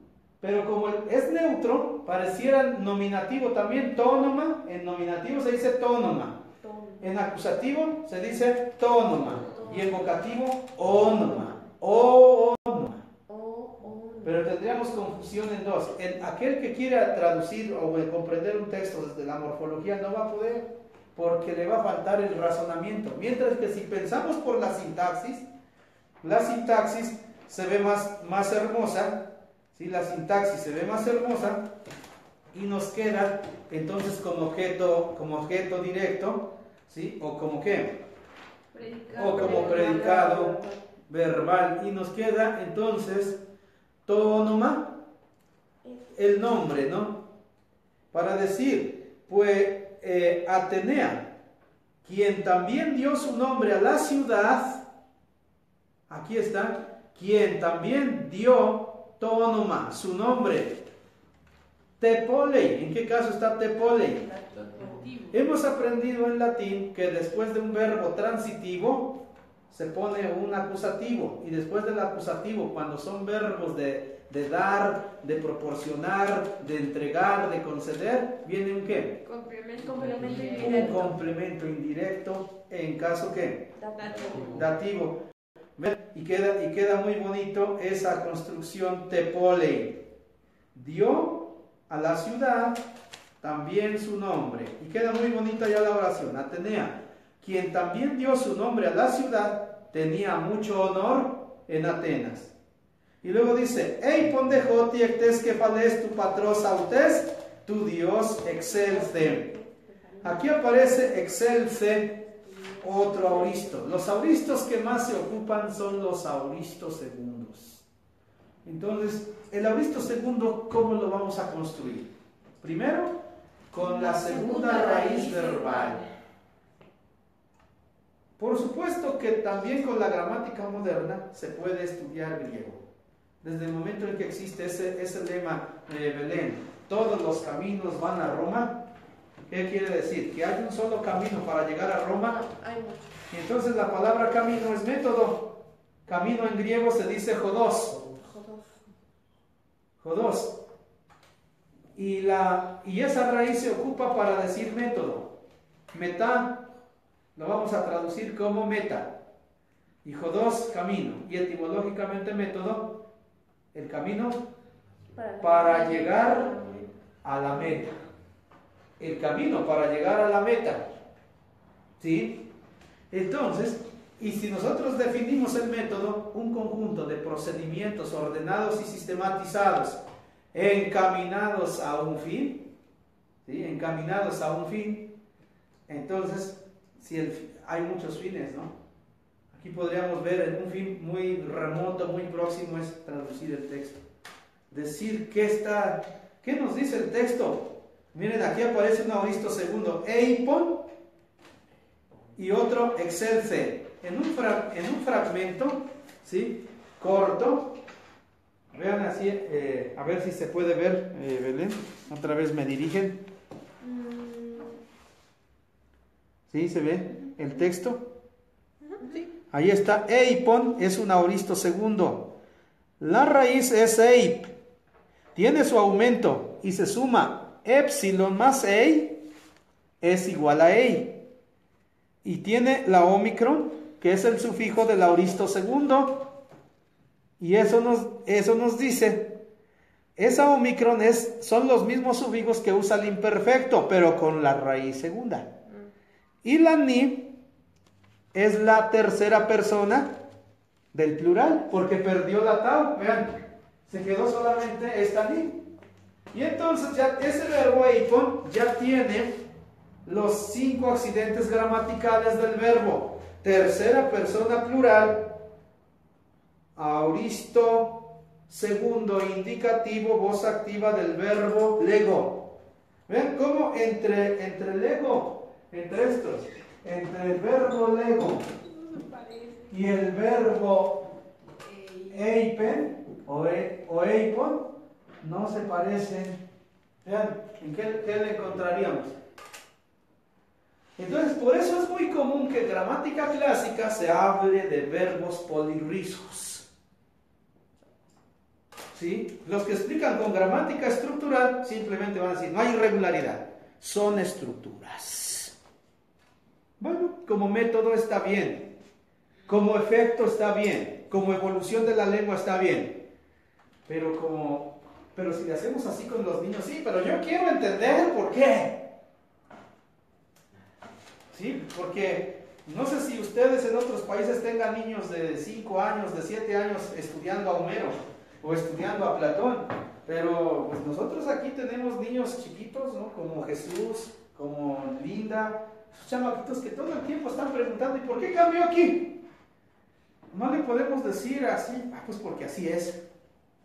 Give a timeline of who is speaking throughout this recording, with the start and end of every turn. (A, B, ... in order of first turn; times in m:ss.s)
0:00.4-0:06.4 A
0:06.6-0:07.1 B
0:07.0-0:13.0 A
0:09.5-0:10.1 B
0:11.0-0:11.6 B
0:13.3-0:14.5 B
0:14.2-0:25.5 A
0:26.2-0:31.7 A
0:32.5-0:38.0 A
0:38.7-0:40.3 C
0:39.1-0:40.8 B
0:39.1-0:40.6 A
0:41.1-0:43.4 A
0:44.1-0:45.0 A
0:45.8-0:46.1 B
0:46.1-0:47.2 A
0:48.1-0:51.3 A
0:52.0-0:54.8 A
0:56.1-1:00.8 A
1:02.0-1:04.4 A
1:04.5-1:05.0 B
1:04.7-1:05.4 C
1:05.3-1:19.2 A
1:19.2-1:21.1 C
1:19.8-1:21.2 B
1:20.3-1:25.2 A
1:23.8-1:24.5 B
1:24.0-1:24.5 C
1:25.8-1:30.0 A
1:30.7-1:32.8 A
1:33.4-1:42.5 A
1:43.2-1:49.5 A
1:48.5-1:51.4 B
1:50.2-1:52.2 A
1:52.2-1:54.0 B
1:52.8-1:57.8 A
1:58.6-2:02.1 A
2:02.6-2:03.2 A
2:03.7-2:06.0 A
2:04.0-2:06.0 C
2:04.0-2:05.4 B
2:08.4-2:12.8 A
2:13.4-2:18.8 A
2:19.5-2:22.4 A
2:22.2-2:23.2 B
2:23.3-2:28.0 A
2:28.0-2:28.8 B
2:30.0-2:30.6 A
2:32.0-2:35.3 A
2:35.9-2:36.7 A
2:37.4-2:39.2 A
2:40.0-2:43.0 A
2:43.7-2:44.4 A
2:45.1-2:47.0 B
2:45.4-2:46.5 A
2:47.2-2:48.0 A
2:49.0-2:50.9 A
2:52.0-2:52.5 A
2:53.1-3:00.0 A
3:00.5-3:02.7 A
3:03.4-3:05.1 A
3:05.9-3:08.8 A
3:09.5-3:14.0 A
3:14.7-3:20.9 A
3:22.4-3:27.8 A
3:28.7-3:33.2 A
3:33.8-3:34.8 B
3:36.5-3:38.1 A
3:38.9-3:39.3 C
3:39.5-3:42.3 A
3:43.0-3:44.5 A
3:45.4-3:49.2 A
3:50.0-3:51.2 A
3:52.2-3:56.3 A
3:57.4-3:59.4 A
4:00.2-4:05.5 A
4:06.4-4:07.3 A
4:08.3-4:10.1 A
4:10.9-4:15.6 A
4:16.3-4:19.3 A
4:20.0-4:25.4 A
4:26.8-4:32.5 A
4:33.1-4:38.5 A
4:38.8-4:39.6 C
4:39.7-4:41.1 A
4:41.6-4:42.3 C
4:42.1-4:44.7 A
4:45.2-4:46.4 A
4:47.0-4:49.2 A
4:51.0-4:56.6 A
4:58.9-5:05.6 A
5:06.8-5:08.7 A
5:09.5-5:13.0 A
5:13.9-5:18.9 A
5:21.3-5:39.2 A
5:40.3-5:43.0 A